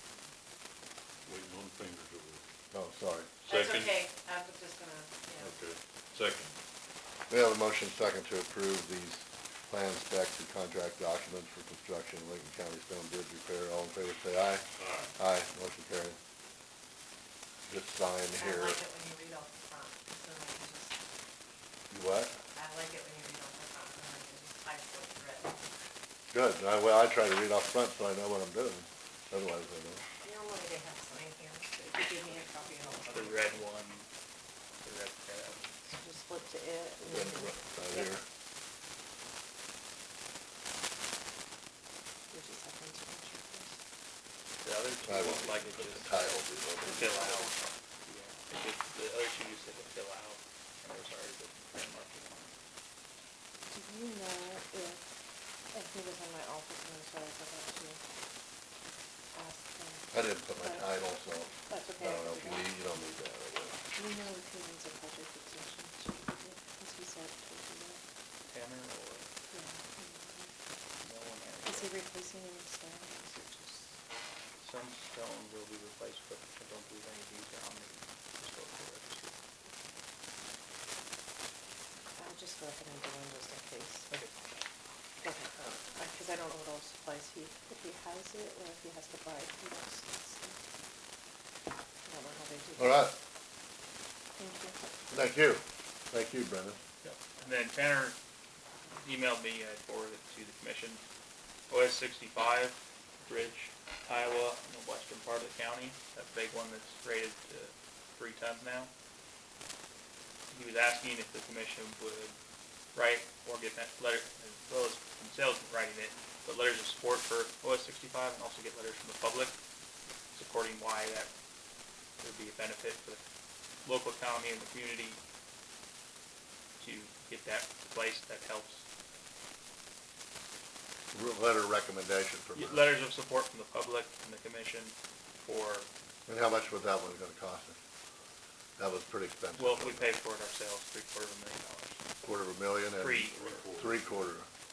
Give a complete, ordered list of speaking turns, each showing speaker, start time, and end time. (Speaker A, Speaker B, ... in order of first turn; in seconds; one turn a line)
Speaker A: 1.2-2.4
Speaker B: 2.7-3.3
Speaker A: 3.5-4.0
Speaker C: 3.5-5.6
Speaker A: 5.4-6.5
Speaker B: 7.3-16.2
Speaker A: 14.8-15.1
Speaker B: 17.7-18.8
Speaker C: 18.4-21.0
Speaker B: 21.9-22.3
Speaker C: 22.5-25.6
Speaker B: 26.3-30.0
Speaker C: 30.2-33.6
Speaker D: 33.1-34.1
Speaker D: 34.8-35.7
Speaker C: 35.8-38.2
Speaker B: 37.0-38.2
Speaker C: 42.3-43.8
Speaker D: 44.6-52.5
Speaker B: 45.0-47.5
Speaker C: 53.7-55.0
Speaker C: 55.7-58.0
Speaker C: 59.3-61.0
Speaker B: 60.1-63.8
Speaker C: 61.6-62.7
Speaker C: 63.9-68.0
Speaker D: 68.5-69.3
Speaker C: 69.5-70.5
Speaker D: 71.0-72.0
Speaker C: 71.6-74.0
Speaker D: 74.6-79.4
Speaker C: 82.2-84.1
Speaker C: 85.2-90.6
Speaker C: 92.0-93.1
Speaker B: 92.8-93.1
Speaker C: 94.4-94.8
Speaker B: 95.1-96.8
Speaker D: 97.0-98.2
Speaker D: 99.0-101.0
Speaker D: 101.7-108.9
Speaker D: 110.5-112.3
Speaker D: 112.9-119.5
Speaker D: 120.3-121.3
Speaker D: 122.2-123.2
Speaker D: 123.8-125.2
Speaker D: 126.8-128.8
Speaker B: 131.1-132.9
Speaker D: 132.5-135.9
Speaker B: 136.3-137.8
Speaker B: 138.8-140.1
Speaker D: 139.6-142.0
Speaker B: 142.2-144.5
Speaker D: 142.9-143.6
Speaker A: 143.3-144.3